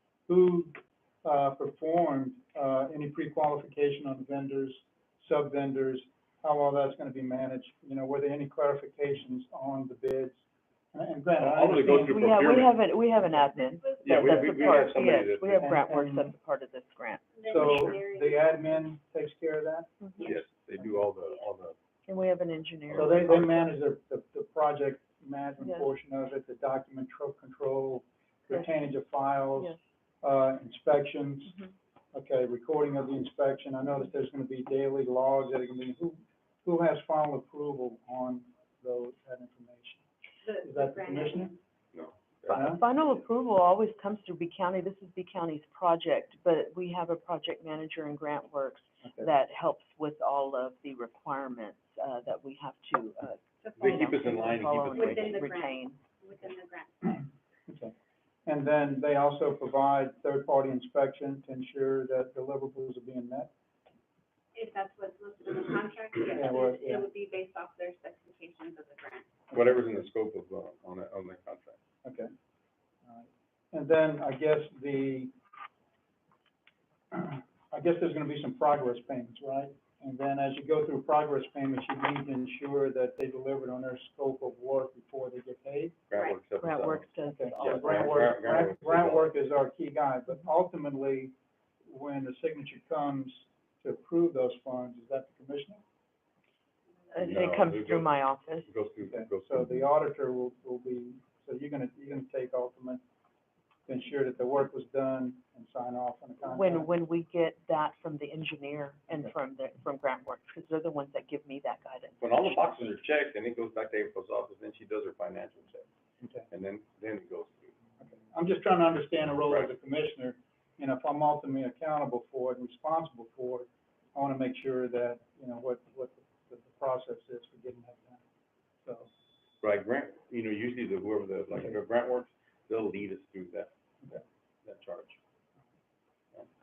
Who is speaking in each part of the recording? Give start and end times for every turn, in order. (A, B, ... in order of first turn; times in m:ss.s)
0:00.3-0:10.4 A
0:10.9-0:12.4 A
0:11.4-0:12.7 B
0:12.0-0:17.9 C
0:14.0-0:15.7 B
0:15.6-0:16.3 A
0:17.4-0:18.8 D
0:17.4-0:20.4 A
0:20.0-0:20.3 C
0:20.2-0:21.8 B
0:22.1-0:23.7 C
0:22.9-0:23.4 B
0:23.0-0:31.6 A
0:25.6-0:25.9 C
0:32.1-0:40.0 A
0:40.4-0:41.6 D
0:40.6-0:41.5 A
0:41.9-0:42.8 B
0:42.5-0:56.0 C
0:42.5-0:42.8 A
0:53.6-0:54.2 D
0:53.8-0:55.4 B
0:54.9-0:57.2 D
0:58.5-1:03.5 A
1:04.5-1:09.3 D
1:06.3-1:07.1 A
1:09.5-1:09.9 A
1:09.5-1:11.8 B
1:12.0-1:12.3 A
1:13.1-1:15.3 A
1:17.1-1:26.0 A
1:26.1-1:29.3 B
1:26.6-1:28.3 C
1:27.3-1:31.3 A
1:31.9-1:35.8 A
1:37.1-1:38.7 C
1:37.2-1:38.1 B
1:38.6-1:39.6 B
1:39.1-1:43.0 A
1:43.9-1:46.9 A
1:46.5-1:52.9 C
1:52.2-1:55.9 B
1:56.2-1:56.5 A
1:56.5-1:57.8 B
1:58.0-2:08.2 A
2:09.6-2:15.2 B